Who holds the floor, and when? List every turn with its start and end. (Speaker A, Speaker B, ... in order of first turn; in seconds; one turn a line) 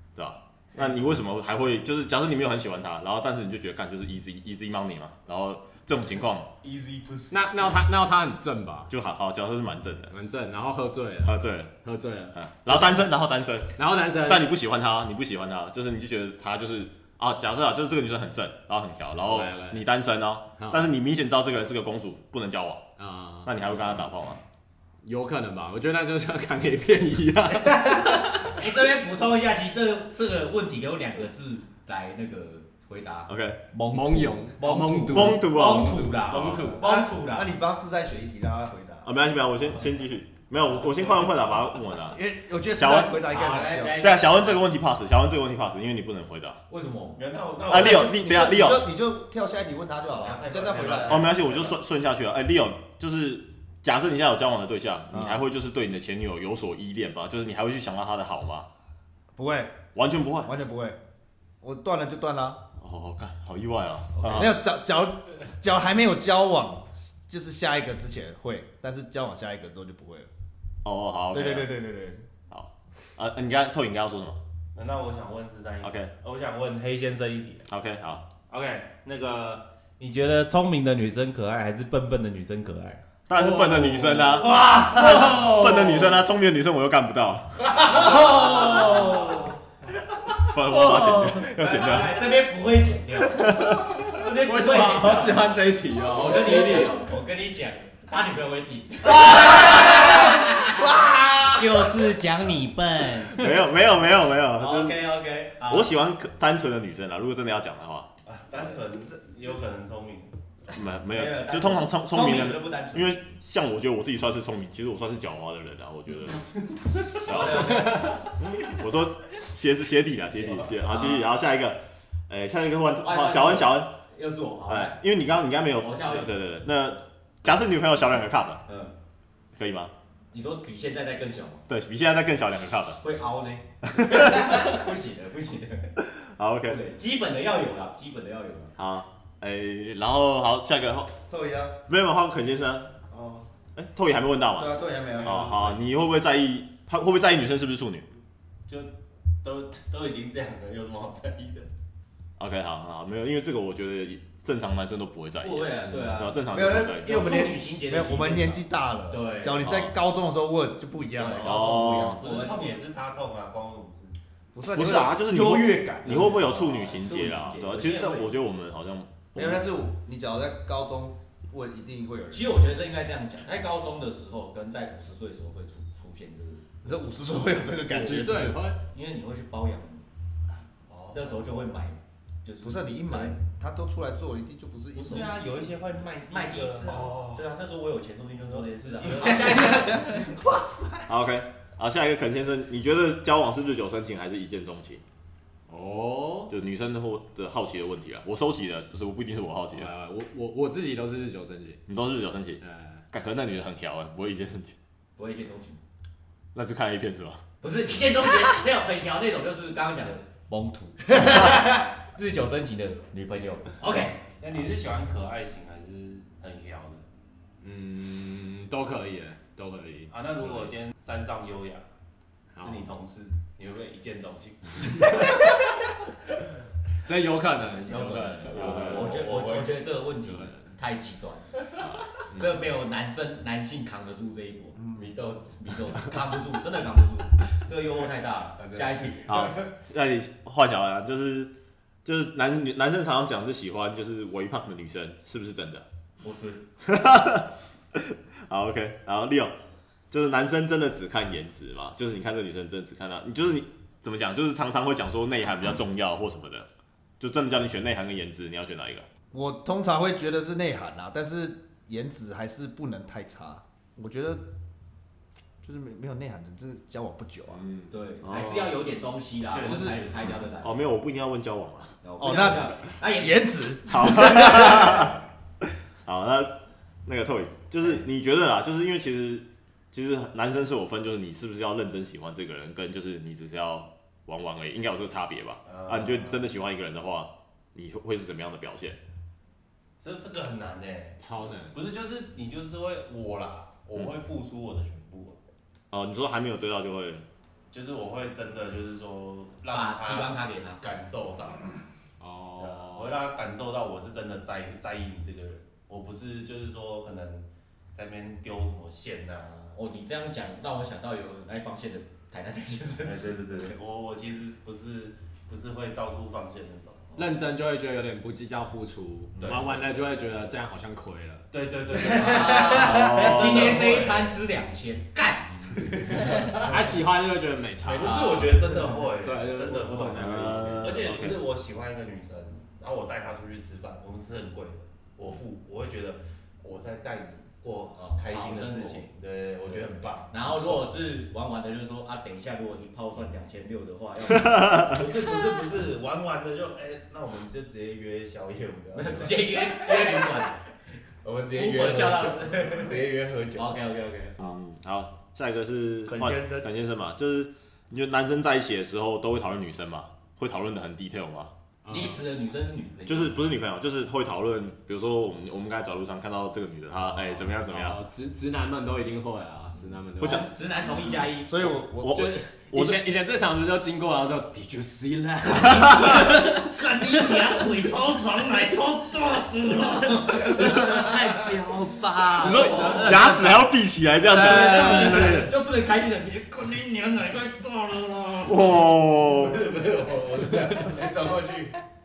Speaker A: 0.1-6.5
Speaker B: 6.6-7.6
Speaker C: 7.3-8.9
Speaker A: 8.9-10.1
Speaker C: 10.1-13.0
Speaker A: 11.2-11.8
Speaker A: 12.3-22.8
Speaker C: 13.8-14.5
Speaker C: 19.2-19.9
Speaker C: 20.6-20.9
Speaker C: 23.0-23.5
Speaker A: 23.4-24.4
Speaker C: 25.0-28.6
Speaker D: 28.4-37.5
Speaker A: 33.3-33.6
Speaker C: 33.9-36.8
Speaker A: 35.1-36.7
Speaker E: 36.8-39.1
Speaker A: 39.0-42.2
Speaker B: 40.7-41.8
Speaker E: 42.1-44.0
Speaker A: 42.7-43.2
Speaker D: 43.2-44.6
Speaker A: 43.9-46.6
Speaker D: 46.7-47.2
Speaker B: 47.1-48.2
Speaker A: 47.7-48.9
Speaker E: 47.7-51.3
Speaker B: 50.1-51.8
Speaker A: 51.1-58.7
Speaker E: 55.1-55.4
Speaker E: 59.3-59.8
Speaker A: 59.9-60.5
Speaker E: 60.4-61.0
Speaker E: 61.6-62.6
Speaker A: 62.8-64.6
Speaker E: 64.2-70.3
Speaker A: 70.8-71.8
Speaker E: 71.3-72.2
Speaker A: 72.5-74.4
Speaker B: 74.7-77.7
Speaker A: 75.8-76.1
Speaker A: 77.7-78.2
Speaker B: 78.5-83.0
Speaker A: 83.3-87.9
Speaker C: 83.3-86.3
Speaker E: 84.5-85.3
Speaker C: 87.8-89.5
Speaker B: 88.0-88.5
Speaker D: 88.1-89.5
Speaker A: 90.4-92.3
Speaker C: 90.6-91.5
Speaker D: 91.5-100.9
Speaker A: 93.3-93.8
Speaker C: 93.8-97.1
Speaker D: 101.5-103.5
Speaker A: 103.3-105.0
Speaker D: 104.6-105.9
Speaker A: 105.7-108.1
Speaker B: 108.2-110.3
Speaker A: 110.7-116.5
Speaker D: 111.1-113.2
Speaker D: 117.0-118.3
Speaker A: 117.1-123.9
Speaker D: 120.7-121.3
Speaker D: 123.0-125.0
Speaker A: 124.7-128.6
Speaker D: 125.7-126.3
Speaker D: 128.7-128.9
Speaker A: 129.6-129.9
Speaker D: 130.3-131.6
Speaker A: 131.7-133.0
Speaker D: 133.0-135.9
Speaker A: 133.9-134.8
Speaker A: 136.0-136.8
Speaker D: 136.7-138.7
Speaker A: 138.8-141.1
Speaker E: 141.3-141.8
Speaker A: 141.9-142.9
Speaker E: 143.1-143.4
Speaker A: 143.8-148.1
Speaker E: 144.5-145.8
Speaker B: 148.7-148.9
Speaker B: 149.4-151.7
Speaker A: 152.4-157.4
Speaker D: 155.4-159.8
Speaker E: 156.5-162.1
Speaker A: 159.6-159.9
Speaker D: 161.1-162.8
Speaker A: 161.4-162.2
Speaker B: 162.2-164.2
Speaker E: 164.5-166.5
Speaker A: 164.7-169.6
Speaker D: 166.2-168.3
Speaker E: 169.3-172.6
Speaker D: 172.3-176.9
Speaker E: 176.8-178.6
Speaker C: 177.9-178.8
Speaker D: 178.9-180.0
Speaker B: 180.9-181.7
Speaker D: 181.1-183.4
Speaker E: 182.6-185.3
Speaker B: 184.9-187.1
Speaker D: 186.3-190.3
Speaker E: 186.8-187.4
Speaker B: 188.4-189.9
Speaker E: 189.1-191.1
Speaker A: 191.1-195.0
Speaker C: 195.7-196.5
Speaker A: 196.5-199.9
Speaker C: 199.7-201.8
Speaker A: 201.9-204.7
Speaker C: 202.6-203.0
Speaker D: 205.2-205.8
Speaker A: 206.5-207.4
Speaker D: 207.6-214.2
Speaker B: 214.4-217.0
Speaker C: 217.6-220.7
Speaker B: 220.1-221.9
Speaker C: 222.5-222.8
Speaker B: 222.6-225.2
Speaker C: 225.1-225.5
Speaker C: 227.0-229.1
Speaker D: 227.8-231.7
Speaker B: 228.5-229.8
Speaker C: 230.2-230.6
Speaker C: 231.8-232.4
Speaker D: 232.3-239.5
Speaker A: 239.3-241.5
Speaker A: 242.0-245.8
Speaker D: 246.2-246.6
Speaker A: 246.8-249.5
Speaker A: 250.1-256.7
Speaker A: 257.2-259.1
Speaker E: 259.3-264.4
Speaker E: 265.6-267.6
Speaker D: 267.9-270.9
Speaker A: 268.2-268.7
Speaker B: 269.5-270.3
Speaker A: 270.6-272.0
Speaker D: 272.0-273.5
Speaker E: 272.2-275.1
Speaker A: 273.9-289.0
Speaker B: 285.6-286.5
Speaker B: 290.0-295.4
Speaker C: 291.2-291.8
Speaker A: 295.9-297.2
Speaker B: 297.7-301.7
Speaker D: 299.7-300.8
Speaker C: 302.2-303.2
Speaker B: 302.6-309.8
Speaker D: 309.7-313.7
Speaker B: 313.0-317.1
Speaker C: 317.2-321.5
Speaker D: 319.3-319.6
Speaker B: 319.4-319.8
Speaker B: 321.5-324.4
Speaker D: 322.0-326.2
Speaker E: 322.4-323.3
Speaker A: 322.6-324.0
Speaker B: 325.8-327.0
Speaker C: 326.1-328.3
Speaker B: 327.8-340.9
Speaker D: 328.0-328.9
Speaker C: 329.2-331.4
Speaker A: 330.1-331.4
Speaker D: 337.9-339.0
Speaker D: 339.7-345.1
Speaker A: 344.3-344.9
Speaker B: 344.9-350.3
Speaker D: 348.9-350.6
Speaker B: 351.2-353.8
Speaker D: 351.5-353.0
Speaker D: 353.6-354.6
Speaker A: 354.4-361.5
Speaker D: 356.1-356.6
Speaker C: 361.8-362.2
Speaker D: 361.9-363.6
Speaker A: 363.1-368.0
Speaker C: 367.1-370.5
Speaker A: 370.2-370.5
Speaker D: 370.2-371.8
Speaker E: 371.4-372.2
Speaker A: 372.0-373.1
Speaker C: 372.1-377.6
Speaker A: 375.7-376.0
Speaker D: 375.7-381.3
Speaker B: 380.4-381.6
Speaker C: 380.4-383.7
Speaker A: 382.4-385.5
Speaker D: 382.4-383.3
Speaker B: 382.5-382.8
Speaker C: 384.2-385.4
Speaker D: 384.3-388.8
Speaker A: 388.4-389.7
Speaker B: 389.2-391.8